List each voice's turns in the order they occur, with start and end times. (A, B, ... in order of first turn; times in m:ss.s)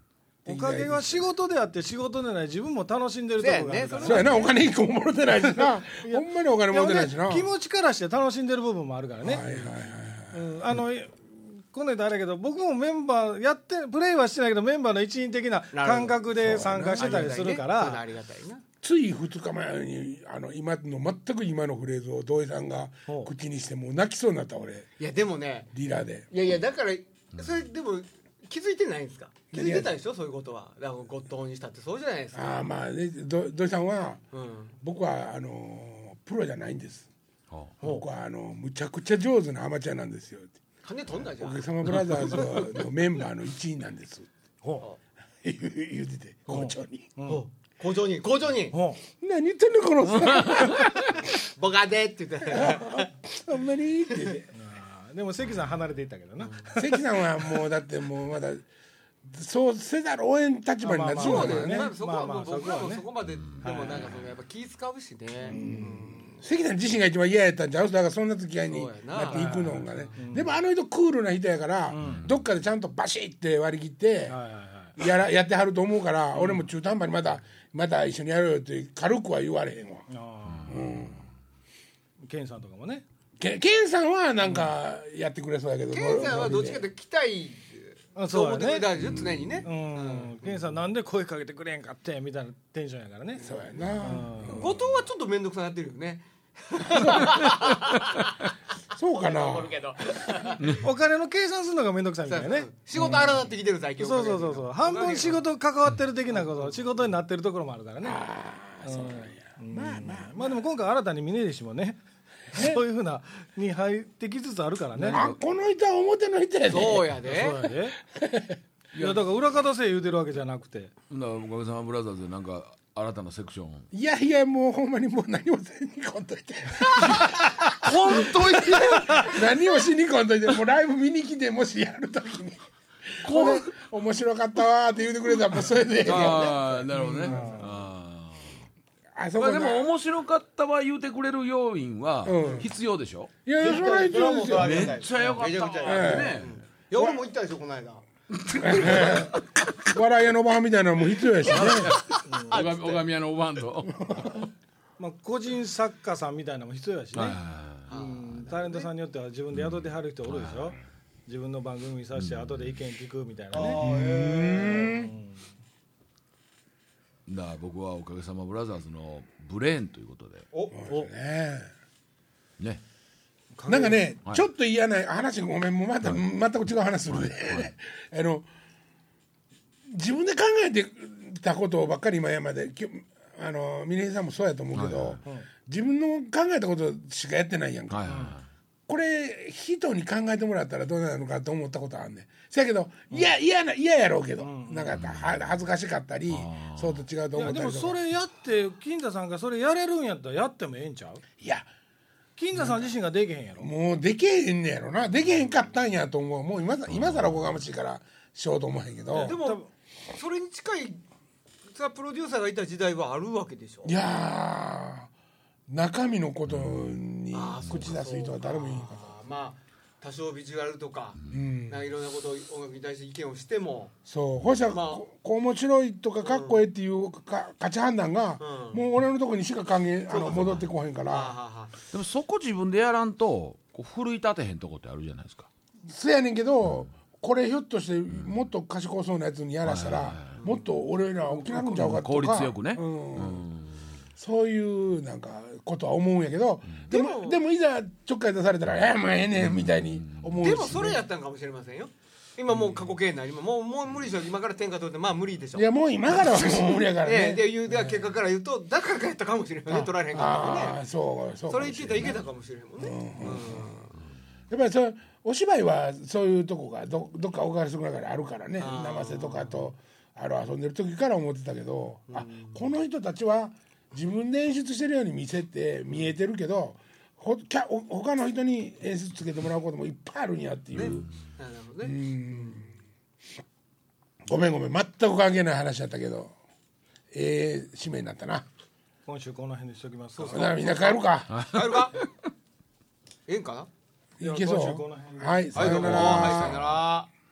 0:00.5-0:01.2 A
0:00.5-0:04.5 B
0:03.4-0:04.5 C
0:04.0-0:07.5 A
0:05.4-0:09.7 B
0:09.2-0:10.4 A
0:10.3-0:18.0 B
0:15.7-0:18.6 C
0:16.4-0:17.3 A
0:18.8-0:24.9 A
0:25.0-0:25.7 C
0:25.7-0:26.3 A
0:26.3-0:32.7 C
0:29.5-0:29.9 A
0:32.4-0:34.2 A
0:34.3-0:34.8 C
0:34.8-0:37.1 A
0:37.8-0:40.6 A
0:40.8-0:42.7 C
0:41.4-0:44.3 A
0:44.6-0:44.9 B
0:45.4-0:47.1 A
0:46.5-0:47.4 B
0:47.3-0:48.8 C
0:48.7-0:49.0 B
0:49.2-0:51.2 A
0:50.2-0:50.8 D
0:50.9-0:53.1 C
0:52.4-0:54.5 A
0:54.1-0:54.4 C
0:54.5-0:57.6 B
0:56.4-0:56.7 C
0:56.8-0:58.6 A
0:59.2-1:01.9 A
1:00.8-1:04.1 B
1:01.2-1:06.4 C
1:03.2-1:04.3 D
1:05.4-1:06.0 B
1:05.5-1:14.4 A
1:08.7-1:10.2 C
1:09.3-1:10.5 B
1:11.9-1:12.3 B
1:12.0-1:12.4 D
1:14.3-1:15.0 B
1:15.0-1:20.1 A
1:16.4-1:16.7 B
1:20.1-1:20.9 B
1:20.5-1:20.8 D
1:20.7-1:21.2 A
1:22.2-1:23.0 B
1:23.4-1:26.9 A
1:25.9-1:30.6 C
1:28.2-1:29.0 B
1:29.0-1:29.5 D
1:29.6-1:33.4 B
1:33.4-1:34.8 A
1:34.0-1:34.7 B
1:34.5-1:38.4 C
1:36.9-1:37.4 A
1:39.0-1:39.7 A
1:39.2-1:40.9 C
1:40.8-1:43.4 B
1:42.3-1:45.5 C
1:44.0-1:48.2 B
1:46.3-1:46.9 C
1:48.0-1:50.6 A
1:48.8-1:52.0 B
1:52.5-1:55.3 B
1:52.5-1:52.8 A
1:55.0-1:55.4 D
1:55.1-1:57.3 A
1:56.7-1:57.6 C
1:57.2-1:58.0 B
1:58.0-1:58.6 A
1:58.9-1:59.3 D
1:59.0-2:00.9 B
2:01.1-2:03.9 D
2:03.9-2:17.6 A
2:07.8-2:09.3 D
2:08.1-2:09.2 C
2:09.0-2:09.3 B
2:13.2-2:13.7 D
2:16.0-2:18.7 D
2:17.0-2:17.7 B
2:19.2-2:19.9 A
2:19.4-2:23.3 D
2:22.2-2:22.7 A
2:22.4-2:22.7 C
2:23.5-2:25.0 A
2:23.6-2:29.6 C
2:24.5-2:26.6 D
2:25.8-2:27.2 A
2:28.5-2:29.0 D
2:28.6-2:32.0 A
2:31.4-2:33.0 C
2:31.5-2:34.5 D
2:32.3-2:32.6 B
2:33.9-2:34.4 A
2:35.0-2:43.8 B
2:37.1-2:37.9 D
2:37.9-2:38.9 C
2:39.5-2:40.8 D
2:42.2-2:42.8 D
2:43.5-2:45.0 C
2:43.8-2:45.1 A
2:44.8-2:45.4 B
2:47.3-2:50.5 D
2:50.5-2:51.1 C
2:50.8-2:51.7 A
2:53.5-2:54.0 B
2:53.7-2:58.5 A
2:57.2-2:57.7 D
2:59.9-3:08.1 A
3:04.7-3:05.2 D
3:07.9-3:08.5 D
3:08.1-3:08.4 B
3:08.9-3:18.0 A
3:14.4-3:15.0 B
3:14.9-3:15.4 D
3:16.3-3:17.0 D
3:17.4-3:21.2 B
3:21.4-3:21.7 A
3:22.4-3:23.7 B
3:23.6-3:29.4 A
3:26.9-3:27.5 D
3:29.1-3:31.0 C
3:29.2-3:29.7 B
3:31.7-3:34.0 C
3:33.8-3:35.1 A
3:35.7-3:39.2 A
3:36.5-3:37.0 D
3:37.3-3:44.0 C
3:41.3-3:41.9 A
3:44.1-3:51.3 A
3:44.7-3:45.0 C
3:46.2-3:46.6 C
3:48.4-3:48.8 C
3:50.1-3:51.7 C
3:51.9-3:55.5 D
3:55.9-4:03.5 A
3:56.6-3:56.9 D
3:59.6-4:00.4 D
4:00.4-4:00.6 C
4:01.5-4:04.0 D
4:04.2-4:11.0 A
4:06.9-4:07.4 C
4:09.4-4:10.4 D
4:10.4-4:20.8 C
4:15.6-4:18.1 A
4:19.7-4:22.3 A
4:21.5-4:23.9 C
4:22.8-4:23.9 A
4:24.5-4:41.1 A
4:28.6-4:29.7 C
4:32.1-4:32.6 C
4:40.8-4:42.7 C
4:41.8-4:42.7 A
4:44.3-4:46.3 A
4:47.1-4:48.5 A
4:49.1-4:50.5 B
4:50.1-4:52.0 C
4:50.2-4:51.4 A
4:51.3-4:52.1 D
4:53.3-4:53.7 C
4:54.2-4:56.8 A
4:54.2-4:56.0 B
4:55.6-4:56.6 D
4:55.6-4:57.1 C